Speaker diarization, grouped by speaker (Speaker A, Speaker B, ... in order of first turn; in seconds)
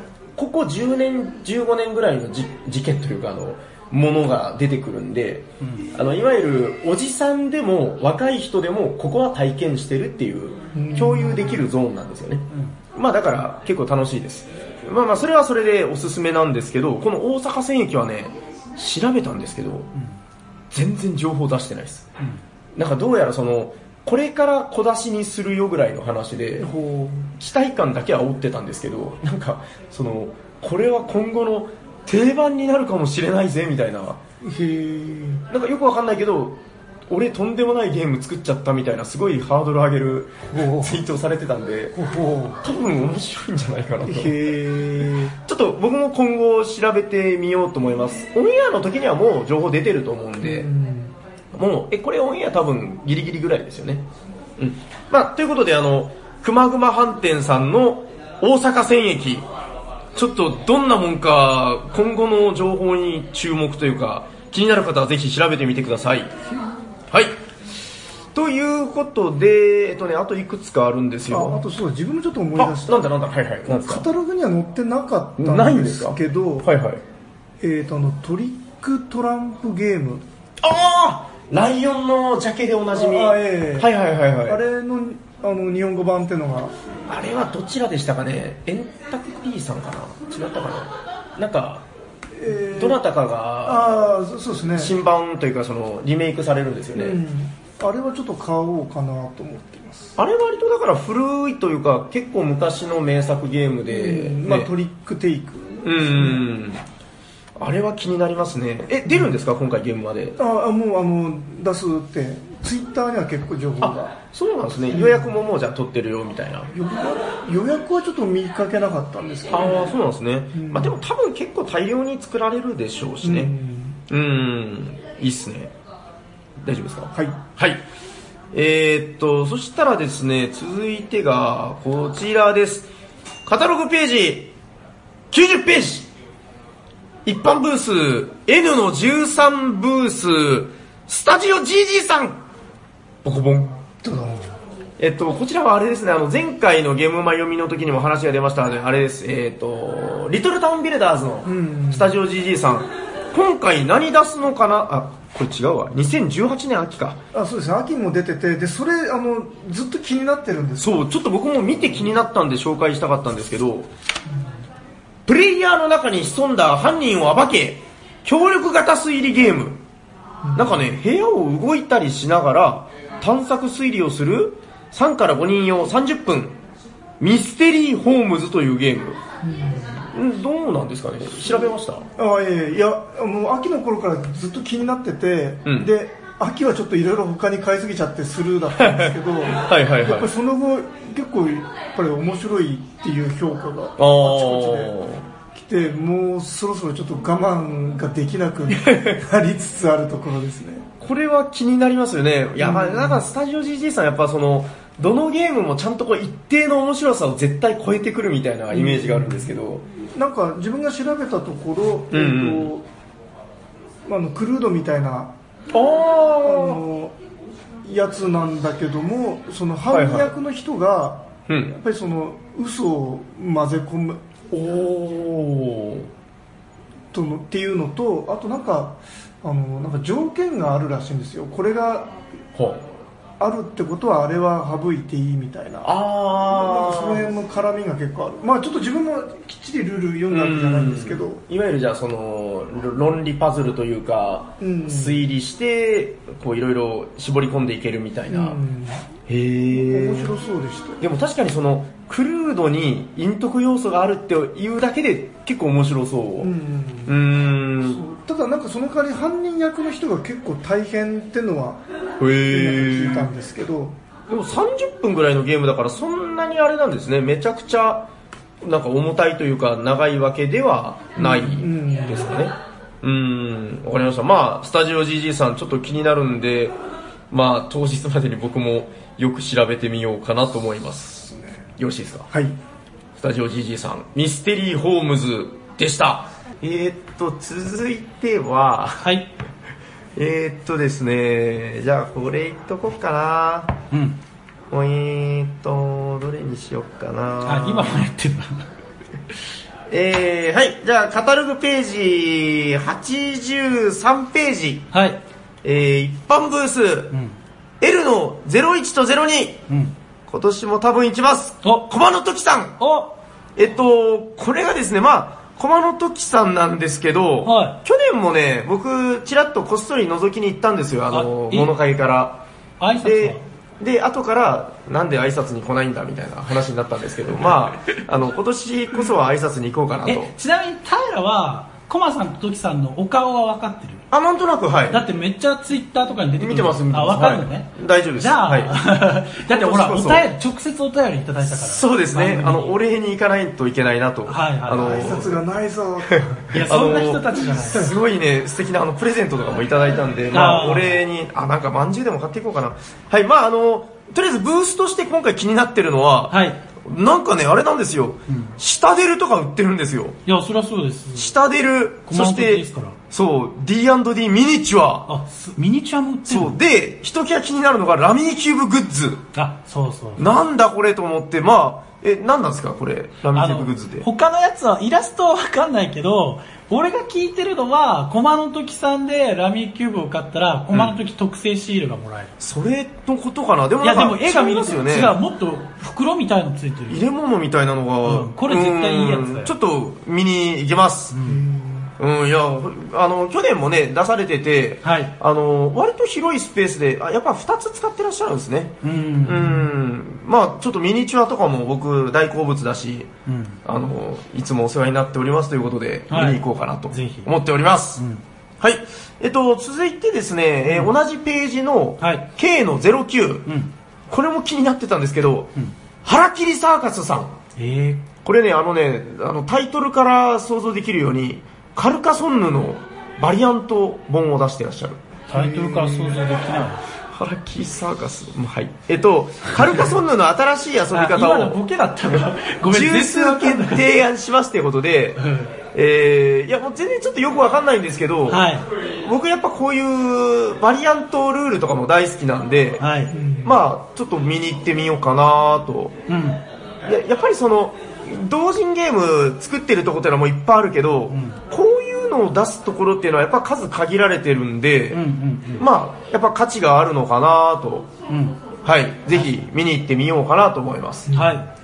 Speaker A: 0.3-19.9, 20.7-22.1, 22.7-26.7, 27.4-34.2, 35.5-42.0, 42.6-44.4, 45.4-50.7, 51.5-54.1, 54.6-59.5, 60.1-66.3, 67.1-67.3, 68.3-71.6, 72.5-74.1, 75.4-77.0, 80.6-84.6, 87.1-91.8, 92.7-94.1, 94.8-97.2, 100.2-104.7, 105.8-106.8, 107.6-110.4, 113.8-116.7, 119.5-123.5, 124.1-125.7, 126.6-127.8, 128.5-132.9, 133.4-134.5, 135.3-136.1, 137.2-142.4, 143.2-143.8, 145.0-157.2, 160.8-163.9, 165.2-169.8, 170.5-176.6, 177.2-179.2, 180.1-182.0, 185.7-185.9, 188.8-190.3, 194.0-195.2, 198.7-199.2, 201.0-209.8, 212.1-212.7, 215.7-216.8, 219.9-220.3, 221.5-221.7, 224.5-226.1, 232.5-232.8, 235.8-237.3, 240.3-248.6, 249.3-250.3, 251.0-256.5, 257.1-258.0, 262.2-263.3, 264.3-268.1, 268.6-276.7, 277.3-282.3, 283.1-289.0, 290.1-293.8, 294.7-298.0, 299.9-304.9, 305.6-307.1, 307.8-309.6, 310.3-312.9, 313.6-322.4, 323.0-330.3, 334.1-335.0, 336.4-338.8, 339.5-340.3, 341.4-345.4, 346.1-360.2, 361.1-365.1, 366.2-369.2, 370.2-374.1, 382.4-385.2, 386.9-391.1, 392.0-403.1, 403.6-408.0, 408.6-413.5, 414.1-415.5, 416.0-417.3, 418.2-425.0, 427.1-431.6, 432.1-438.5, 439.0-442.8, 443.4-446.0, 446.8-455.0, 455.6-457.9, 458.6-461.1
Speaker B: 5.6-5.9, 289.0-289.3, 293.9-294.2, 297.4-298.7, 304.9-305.2, 309.7-309.9, 311.6-311.9, 312.8-313.1, 317.4-317.8, 321.1-321.7, 322.8-323.4, 330.1-334.0, 334.9-342.8, 344.3-345.2, 346.5-347.9, 350.3-351.0, 356.3-356.6, 358.3-358.6, 360.2-361.3, 362.1-363.0, 365.1-366.6, 369.3-370.4, 373.3-382.3, 383.8-387.0, 388.0-389.5, 391.1-391.4, 394.8-395.1, 398.8-399.7, 403.2-403.6, 406.1-407.3, 407.9-408.2, 410.7-410.9, 412.0-412.2, 413.4-413.7, 417.6-418.1, 425.3-426.9, 430.9-433.9, 435.2-435.5, 438.3-438.7, 442.8-443.1, 446.1-446.4, 451.1-451.4, 454.9-455.6, 458.1-458.4, 461.1-461.5
Speaker C: 10.7-11.6, 26.6-27.3, 34.4-35.4, 40.5-41.0, 41.9-42.6, 44.0-45.3, 50.4-51.1, 71.3-73.1, 73.7-76.7, 77.6-80.2, 82.9-83.9, 84.4-86.7, 92.4-93.0, 93.6-94.9, 96.9-100.2, 103.9-106.5, 110.4-114.2, 114.9-115.3, 116.7-119.9, 120.5-121.0, 123.2-124.0, 127.1-127.4, 143.9-144.5, 151.4-152.2, 157.3-160.9, 170.4-170.8, 179.4-180.1, 182.2-194.9, 195.5-200.9, 202.6-203.2, 208.7-209.5, 210.1-212.9, 214.1-215.3, 216.4-217.1, 217.8-224.2, 227.1-232.1, 233.4-235.9, 236.5-241.4, 244.6-245.3, 248.3-249.1, 249.7-251.0, 256.4-257.2, 257.8-261.8, 262.5-264.0, 271.2-272.4, 281.3-281.6, 344.7-346.5, 391.2-391.9, 425.3-426.2, 443.1-443.6, 461.1-461.4